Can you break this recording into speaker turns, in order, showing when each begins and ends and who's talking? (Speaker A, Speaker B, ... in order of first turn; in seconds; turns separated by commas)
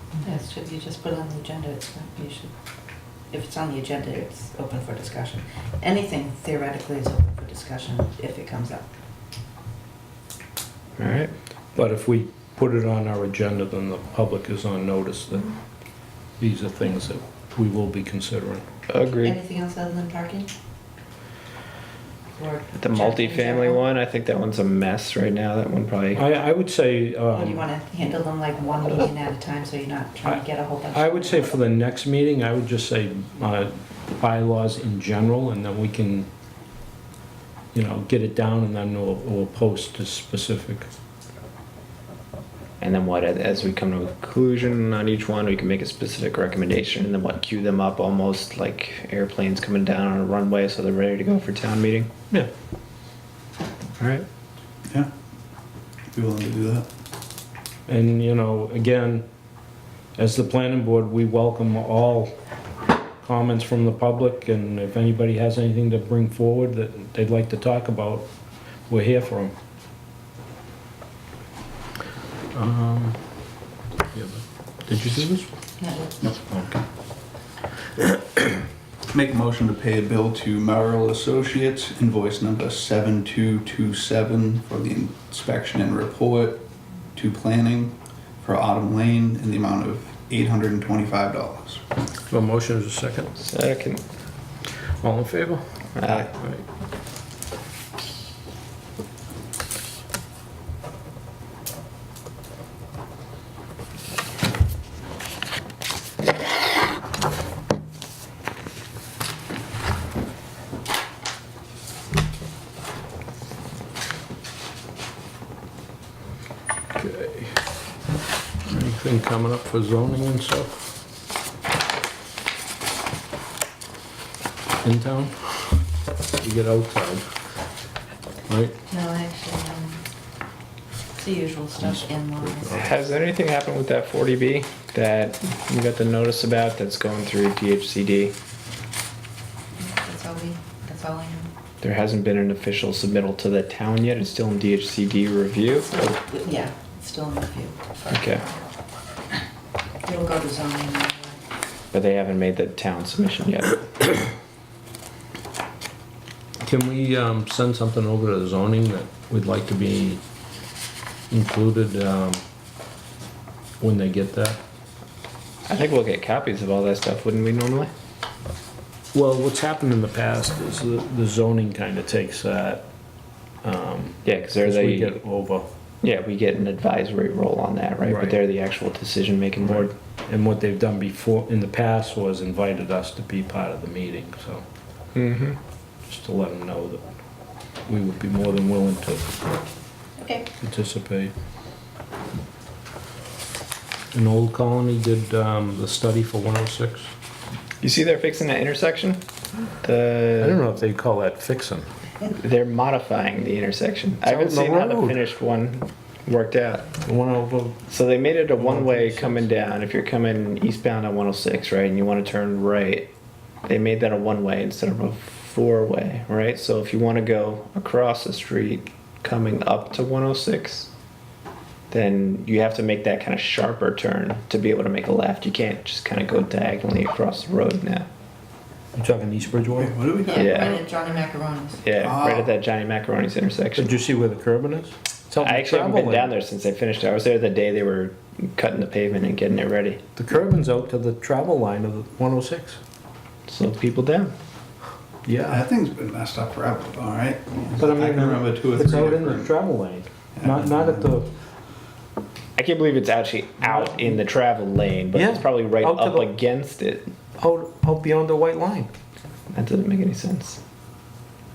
Speaker A: 0.2-2.5, Speaker A: 3.3-8.9, Speaker B: 11.0-11.3, Speaker C: 11.7-15.5, Speaker C: 16.4-18.6, Speaker B: 18.9-19.4, Speaker A: 19.2-20.5, Speaker A: 22.4-23.8, Speaker B: 22.7-26.3, Speaker C: 26.1-27.6, Speaker A: 27.3-31.5, Speaker C: 30.2-36.3, Speaker C: 37.7-40.9, Speaker B: 42.8-52.1, Speaker B: 54.0-54.3, Speaker D: 56.1-56.9, Speaker C: 57.9-59.2, Speaker C: 60.2-62.3, Speaker C: 63.2-68.3, Speaker C: 68.9-69.5, Speaker C: 72.5-73.2, Speaker C: 74.1-75.5, Speaker A: 75.8-76.3, Speaker C: 76.4-76.8, Speaker C: 78.0-78.5, Speaker D: 79.1-86.6, Speaker D: 87.1-91.8, Speaker C: 92.3-93.3, Speaker B: 93.4-94.0, Speaker C: 95.0-96.6, Speaker B: 96.0-96.3, Speaker C: 117.0-117.6, Speaker C: 118.7-120.9, Speaker C: 124.8-125.8, Speaker C: 126.4-127.2, Speaker C: 128.5-128.8, Speaker A: 128.9-130.0, Speaker A: 131.2-132.7, Speaker C: 131.8-132.9, Speaker B: 132.7-138.3, Speaker A: 139.8-141.5, Speaker B: 141.8-146.2, Speaker A: 145.9-148.1, Speaker B: 148.1-148.5, Speaker A: 150.0-151.4, Speaker B: 151.9-154.2, Speaker C: 156.6-160.2, Speaker C: 161.3-162.4, Speaker C: 163.8-164.6, Speaker B: 165.7-167.9, Speaker C: 169.1-172.8, Speaker C: 173.6-175.7, Speaker B: 174.2-175.2, Speaker B: 176.0-179.9, Speaker C: 178.1-178.4, Speaker C: 179.6-184.7, Speaker B: 185.2-185.6, Speaker C: 186.1-187.1, Speaker C: 187.9-189.4, Speaker A: 190.2-190.5, Speaker C: 190.6-191.3, Speaker C: 194.1-197.1, Speaker B: 197.8-199.2, Speaker B: 199.8-200.6, Speaker C: 200.4-201.9, Speaker B: 202.3-206.9, Speaker C: 204.2-205.2, Speaker C: 207.0-207.8, Speaker B: 207.9-213.1, Speaker C: 208.6-209.5, Speaker B: 213.7-220.9, Speaker B: 221.9-228.1, Speaker C: 228.9-230.0, Speaker D: 229.7-230.8, Speaker A: 230.2-231.8, Speaker B: 230.3-230.8, Speaker B: 231.8-234.0, Speaker D: 232.0-232.5, Speaker C: 233.8-236.3, Speaker B: 235.4-240.0, Speaker C: 240.2-242.8, Speaker B: 243.5-244.3, Speaker C: 245.2-245.6, Speaker D: 245.3-249.5, Speaker C: 247.8-251.3, Speaker D: 250.3-251.1, Speaker B: 252.6-257.1, Speaker C: 253.6-254.2, Speaker C: 255.1-256.3, Speaker C: 257.4-258.9, Speaker B: 259.5-260.6